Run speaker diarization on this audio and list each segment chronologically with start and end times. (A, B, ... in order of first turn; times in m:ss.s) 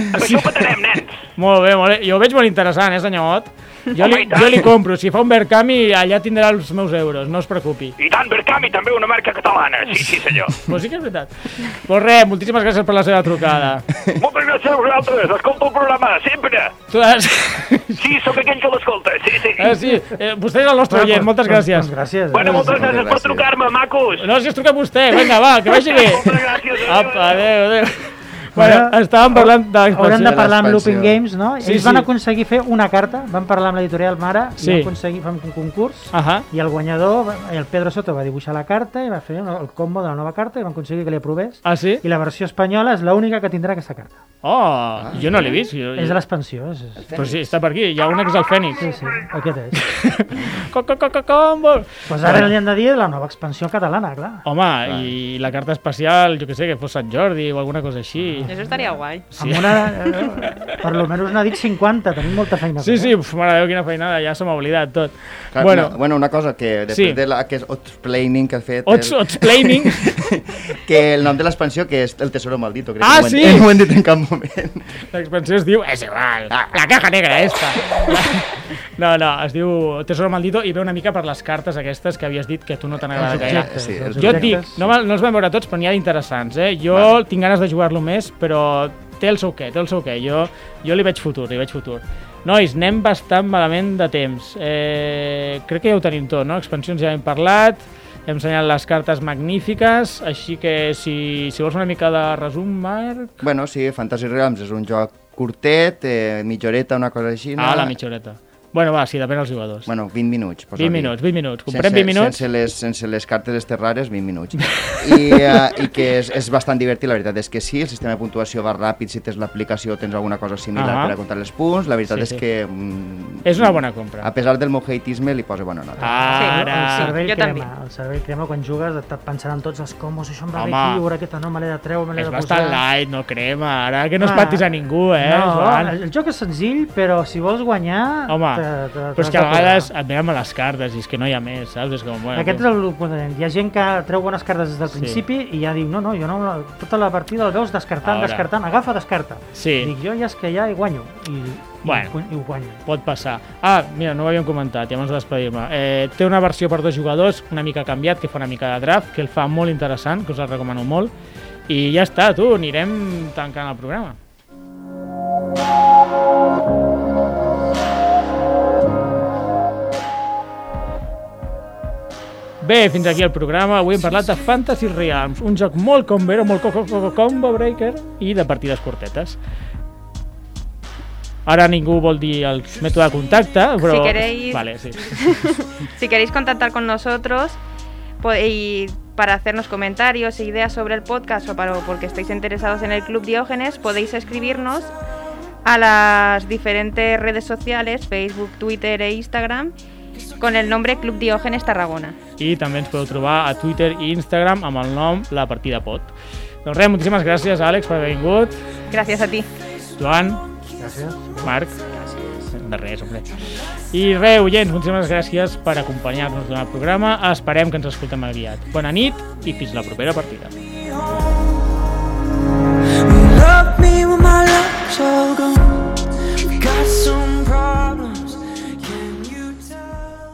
0:00.1-0:00.4 A
0:00.2-0:01.2 B
0:01.4-0:07.9 A
0:04.0-0:04.7 B
0:08.0-0:10.7 B
0:10.0-0:13.8 A
0:14.2-0:16.7 B
0:16.9-0:18.3 A
0:17.9-0:19.8 B
0:19.6-0:21.9 A
0:20.9-0:22.9 C
0:22.3-0:24.3 B
0:22.4-0:23.5 D
0:24.2-0:30.5 A
0:25.8-0:27.4 B
0:28.5-0:29.0 C
0:29.9-0:44.1 C
0:30.2-0:31.2 D
0:31.6-0:32.1 A
0:34.6-0:34.9 A
0:36.1-0:36.5 A
0:41.6-0:42.0 A
0:44.4-0:46.2 A
0:45.0-0:45.4 D
0:45.9-0:47.1 C
0:47.0-0:47.6 D
0:47.1-0:49.0 A
0:48.8-0:49.8 C
0:49.9-0:52.5 A
0:52.1-0:54.4 C
0:54.4-0:58.6 A
0:54.8-0:55.1 D
0:58.4-1:03.1 C
0:58.5-0:59.2 E
0:59.3-1:00.8 A
1:02.8-1:06.0 A
1:05.5-1:15.0 D
1:06.9-1:07.2 A
1:08.8-1:10.2 A
1:13.0-1:13.9 A
1:15.1-1:43.4 A
1:23.1-1:24.9 D
1:23.2-1:24.8 C
1:26.9-1:27.2 D
1:43.4-1:47.9 D
1:47.6-1:49.9 A
1:49.8-2:06.2 D
1:50.8-1:52.4 A
1:54.6-1:55.6 A
2:00.8-2:01.2 A
2:02.1-2:02.4 A
2:03.4-2:04.3 A
2:06.0-2:12.8 C
2:06.0-2:07.2 A
2:06.3-2:07.7 E
2:10.6-2:11.0 A
2:12.1-2:15.9 A
2:14.2-2:19.9 C
2:18.3-2:18.6 A
2:19.2-2:22.6 A
2:22.3-2:32.8 C
2:24.9-2:25.2 A
2:28.0-2:28.5 A
2:29.5-2:29.9 A
2:31.8-2:32.1 A
2:32.8-2:41.1 A
2:41.7-2:44.2 A
2:52.6-2:59.4 A
3:01.4-3:05.1 A
3:03.8-3:07.6 E
3:08.2-3:14.9 E
3:15.6-3:19.7 E
3:20.3-3:22.2 E
3:22.4-3:26.1 A
3:26.6-3:28.6 A
3:28.9-3:29.5 E
3:30.0-3:30.4 A
3:30.8-3:31.5 C
3:31.4-3:31.8 A
3:32.5-3:40.5 A
3:43.1-3:45.9 F
3:46.6-3:48.3 F
3:49.0-3:49.6 F